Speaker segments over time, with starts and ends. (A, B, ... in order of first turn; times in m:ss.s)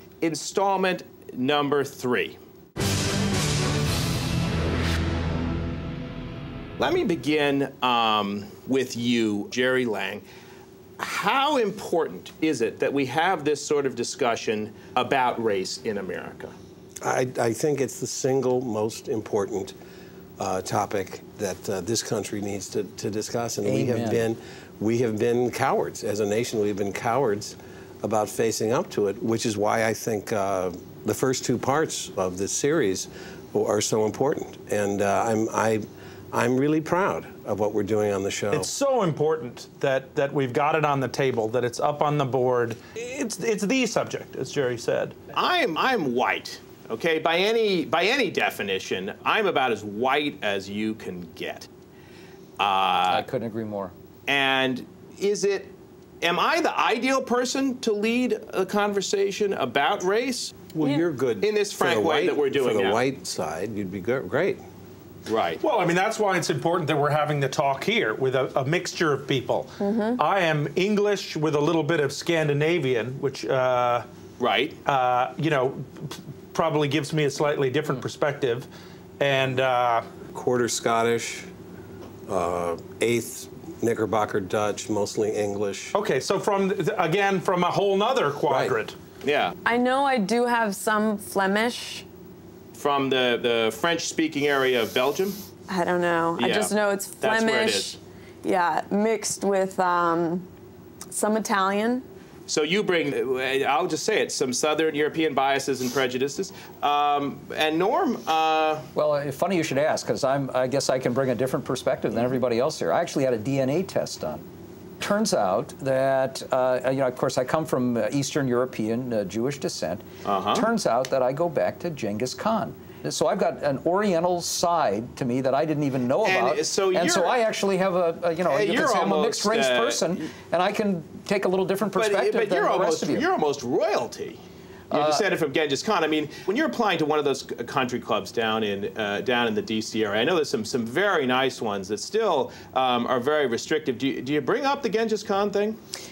0:00.2-0:02.4 A
0:06.8-0:10.2 A
0:11.0-0:16.5 A
0:17.0-0:19.8 B
0:20.4-0:38.7 B
0:23.6-0:24.3 C
0:38.5-0:45.2 D
0:45.3-0:51.7 A
0:52.6-0:53.3 A
0:53.1-0:53.9 C
0:54.3-1:00.6 A
1:00.7-1:04.6 B
1:01.4-1:03.0 A
1:05.3-1:05.6 A
1:05.6-1:14.1 D
1:09.8-1:10.2 E
1:14.4-1:14.8 A
1:14.8-1:18.7 D
1:19.2-1:20.1 D
1:20.3-1:21.5 B
1:22.3-1:25.9 B
1:25.9-1:29.0 D
1:28.5-1:28.8 B
1:29.2-1:29.5 A
1:29.6-1:32.1 E
1:32.7-1:35.4 A
1:35.7-1:40.5 E
1:36.4-1:38.0 A
1:41.1-1:42.0 E
1:42.5-1:48.9 A
1:49.0-1:54.4 C
1:55.0-2:13.3 C
2:00.2-2:00.7 A
2:06.2-2:07.4 A
2:08.5-2:10.2 A
2:11.9-2:14.4 A
2:14.9-2:15.2 C
2:14.9-2:25.8 A